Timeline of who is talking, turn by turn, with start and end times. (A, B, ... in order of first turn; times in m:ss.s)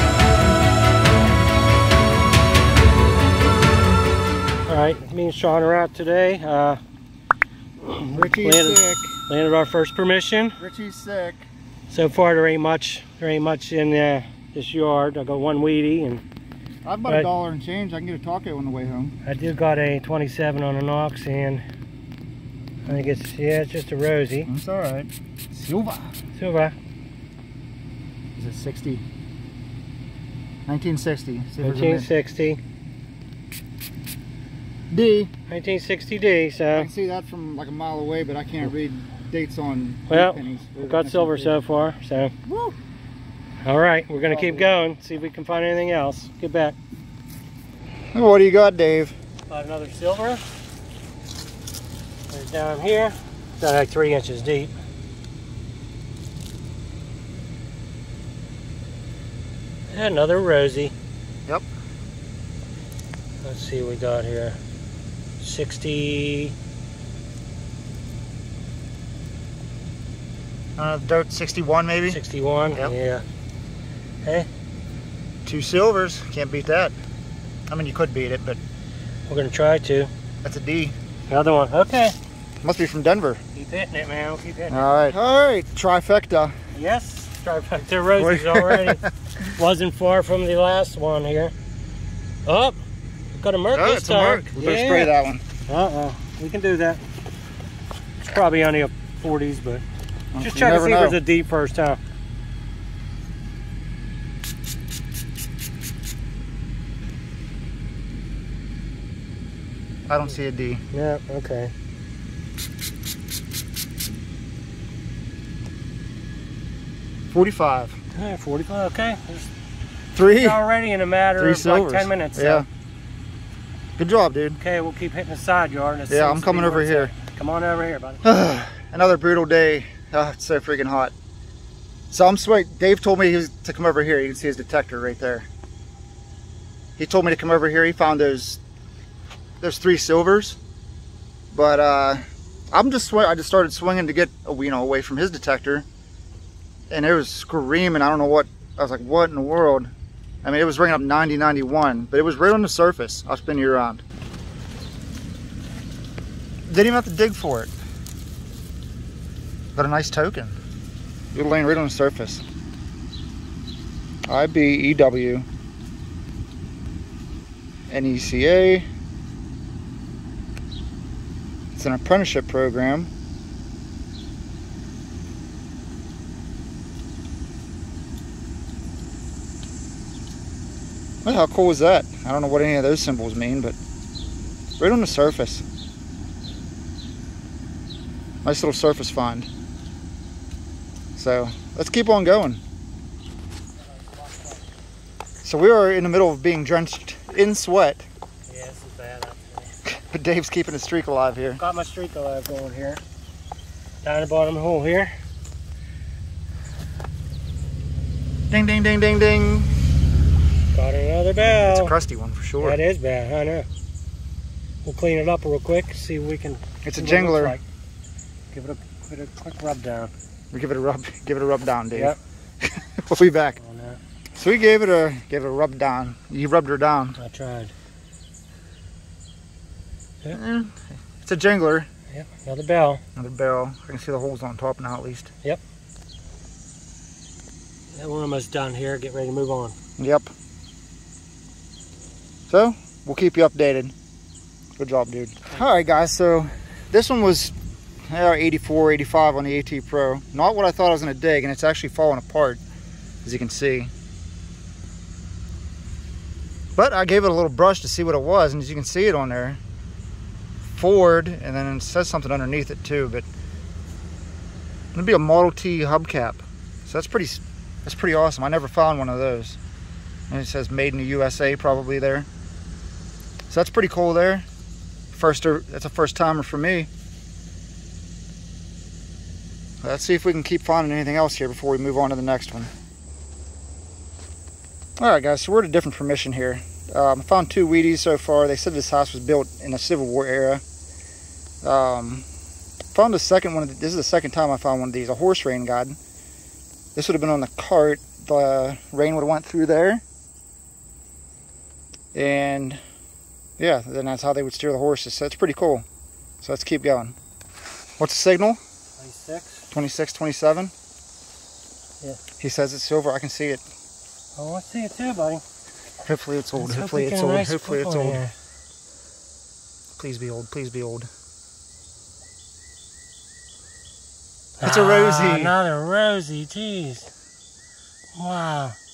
0:04.7-0:06.8 A
0:07.8-0:10.6 A
0:08.1-0:09.2 B
0:10.6-0:11.5 B
0:11.9-0:16.2 A
0:16.8-0:19.2 B
0:17.1-0:17.3 A
0:19.2-0:21.6 A
0:22.9-0:24.5 A
0:24.5-0:26.2 B
0:26.4-0:26.8 A
0:28.4-0:29.0 B
0:30.7-0:32.1 B
0:31.6-0:32.6 A
0:34.9-0:35.3 B
0:35.5-0:36.9 A
0:36.7-0:41.6 B
0:40.1-0:42.4 A
0:42.5-0:42.8 B
0:43.6-0:46.8 A
0:44.2-0:44.7 B
0:48.1-0:49.2 B
0:49.5-0:50.4 A
0:52.3-0:54.7 A
0:59.9-1:01.0 A
1:03.4-1:04.6 A
1:05.4-1:06.6 A
1:10.8-1:12.2 B
1:12.1-1:13.2 A
1:14.2-1:14.5 A
1:15.4-1:17.0 B
1:17.7-1:18.6 B
1:19.3-1:20.1 A
1:20.4-1:21.0 B
1:21.3-1:22.2 A
1:22.6-1:23.4 B
1:23.6-1:25.2 A
1:24.7-1:26.6 B
1:26.8-1:29.0 A
1:28.2-1:29.1 B
1:29.6-1:31.5 A
1:32.4-1:32.8 A
1:33.3-1:35.1 A
1:33.7-1:35.4 B
1:35.7-1:37.0 A
1:38.2-1:39.8 A
1:40.3-1:41.2 B
1:40.4-1:42.0 A
1:50.1-1:50.8 B
1:50.9-1:51.7 A
1:57.3-1:58.0 B
1:58.2-1:59.5 A
2:00.2-2:00.6 B
2:00.2-2:02.7 A
2:01.4-2:02.7 B
2:04.0-2:04.6 B
2:04.6-2:08.2 A
2:06.1-2:07.1 B
2:08.2-2:11.1 B
2:12.1-2:15.5 B
2:17.0-2:18.6 B
2:19.6-2:20.6 B
2:21.5-2:25.9 B
2:26.9-2:29.9 B
2:30.4-2:34.0 B
2:36.7-2:37.7 B
2:39.8-2:40.6 B
2:41.3-2:42.4 B
2:44.3-2:45.5 B
2:47.9-2:48.9 B
2:51.8-2:53.1 B
3:01.2-3:03.8 B
3:04.8-3:05.6 B
3:08.4-3:09.5 B
3:11.2-3:12.6 B
3:13.8-3:14.7 A
3:15.4-3:18.1 B
3:18.5-3:19.7 A
3:19.9-3:21.6 B
3:21.6-3:23.0 A
3:24.0-3:25.1 A
3:28.5-3:29.7 B
3:30.7-3:32.0 A
3:31.4-3:32.8 B
3:32.6-3:33.7 A
3:34.8-3:37.6 A
3:36.8-3:37.6 B
3:38.5-3:40.1 A
3:40.5-3:43.6 B
3:41.9-3:42.2 A
3:43.6-3:44.0 A
3:44.4-3:47.2 B
3:47.2-3:47.7 A
3:50.3-3:51.9 B
3:52.1-3:53.0 A
3:53.2-3:55.3 B
3:58.0-3:59.8 A
4:00.0-4:00.3 B
4:02.5-4:03.9 B
4:04.8-4:07.5 B
4:08.1-4:12.6 B
4:13.2-4:13.9 B
4:16.8-4:19.6 B
4:20.7-4:23.3 B
4:25.0-4:29.6 B
4:30.3-4:32.3 B
4:33.5-4:34.4 B
4:35.1-4:36.9 B
4:39.8-4:42.7 B
4:45.0-4:50.6 B
4:51.6-4:52.3 B
4:52.9-4:56.0 B
4:57.0-5:00.0 B
5:02.1-5:02.8 B
5:03.6-5:05.8 B
5:06.4-5:07.2 B
5:08.0-5:08.6 B
5:09.0-5:09.6 A
5:09.7-5:10.7 B
5:12.4-5:13.6 B
5:14.4-5:15.4 A
5:16.0-5:18.2 B
5:16.6-5:18.3 A
5:20.0-5:21.1 B
5:24.6-5:27.1 A
5:24.6-5:25.6 B
5:28.2-5:28.8 A